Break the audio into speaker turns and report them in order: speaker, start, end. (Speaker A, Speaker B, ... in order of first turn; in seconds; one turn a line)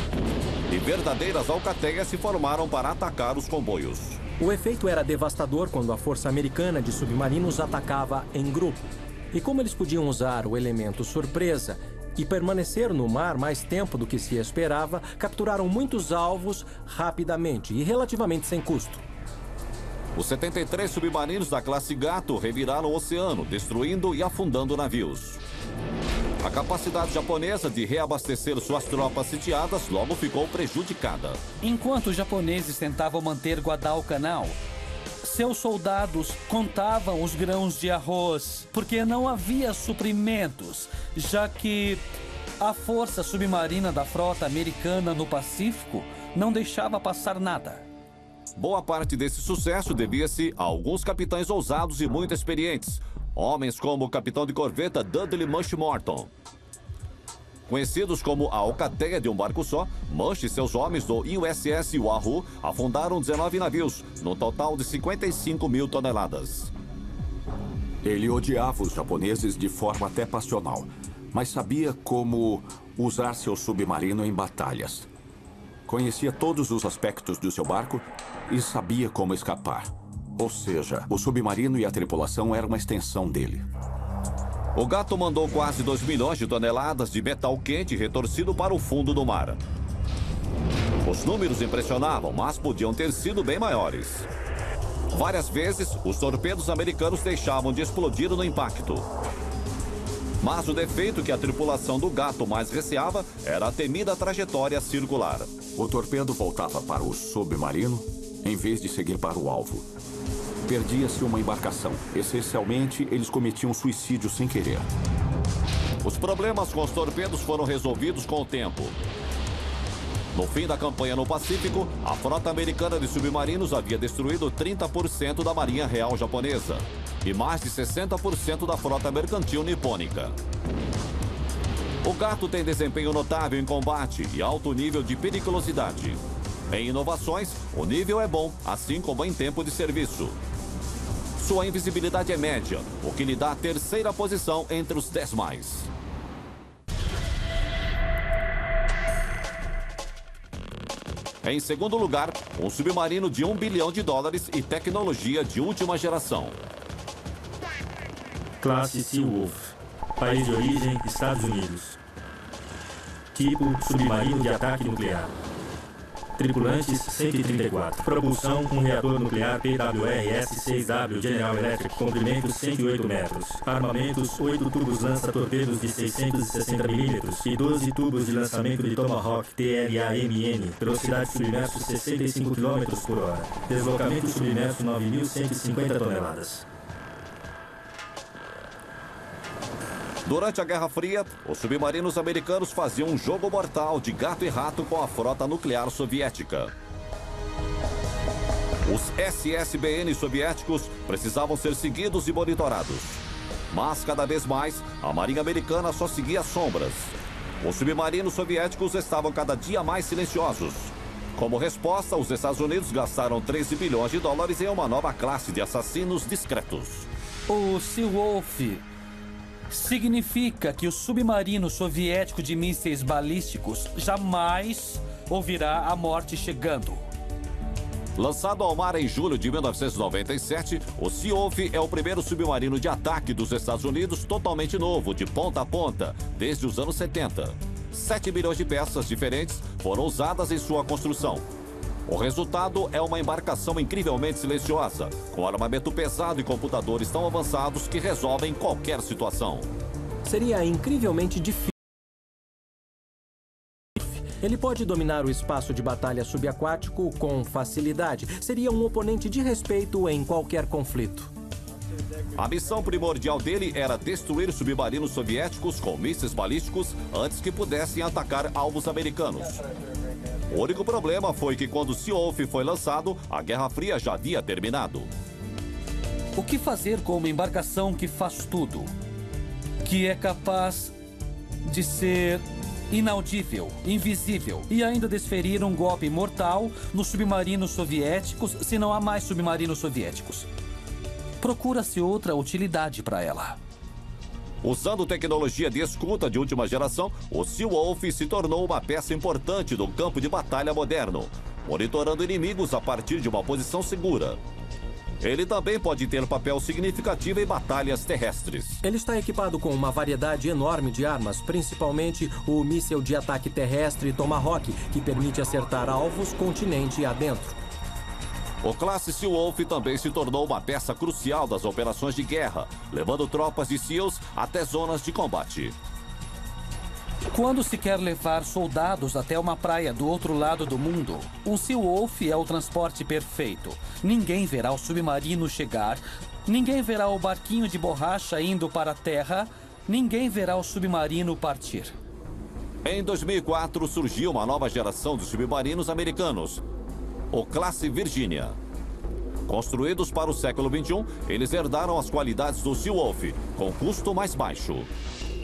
Speaker A: 0.7-4.2
Speaker B: 4.4-19.0
Speaker A: 20.1-25.4
Speaker A: 26.4-31.4
Speaker C: 31.6-34.6
Speaker C: 35.2-42.0
Speaker C: 42.6-47.8
Speaker A: 48.5-56.3
Speaker A: 57.7-66.7
Speaker D: 68.0-75.1
Speaker D: 75.8-83.7
Speaker A: 84.7-89.6
Speaker A: 91.0-94.3
Speaker A: 95.1-99.0
Speaker A: 100.4-105.5
Speaker D: 105.7-109.9
Speaker D: 110.7-114.9
Speaker A: 116.0-119.0
Speaker A: 120.3-130.3
Speaker A: 132.0-140.4
Speaker A: 141.4-145.9
Speaker A: 151.4-156.6
Speaker E: 158.6-162.0
Speaker E: 163.3-165.3
Speaker E: 166.4-186.6
Speaker A: 190.2-196.7
Speaker A: 198.8-217.1
Speaker C: 217.5-218.8
Speaker C: 219.7-227.0
Speaker A: 228.2-241.4
Speaker A: 242.1-249.7
Speaker B: 250.2-251.7
Speaker B: 254.0-261.3
Speaker A: 262.4-269.6
Speaker A: 270.5-275.1
Speaker C: 276.4-278.9
Speaker C: 279.8-280.9
Speaker C: 281.6-290.5
Speaker C: 291.4-293.6
Speaker A: 294.6-304.4
Speaker A: 305.2-308.8
Speaker B: 308.8-317.6
Speaker A: 318.6-325.8
Speaker C: 327.3-341.9
Speaker A: 342.8-346.6
Speaker A: 347.3-348.6
Speaker A: 349.5-354.9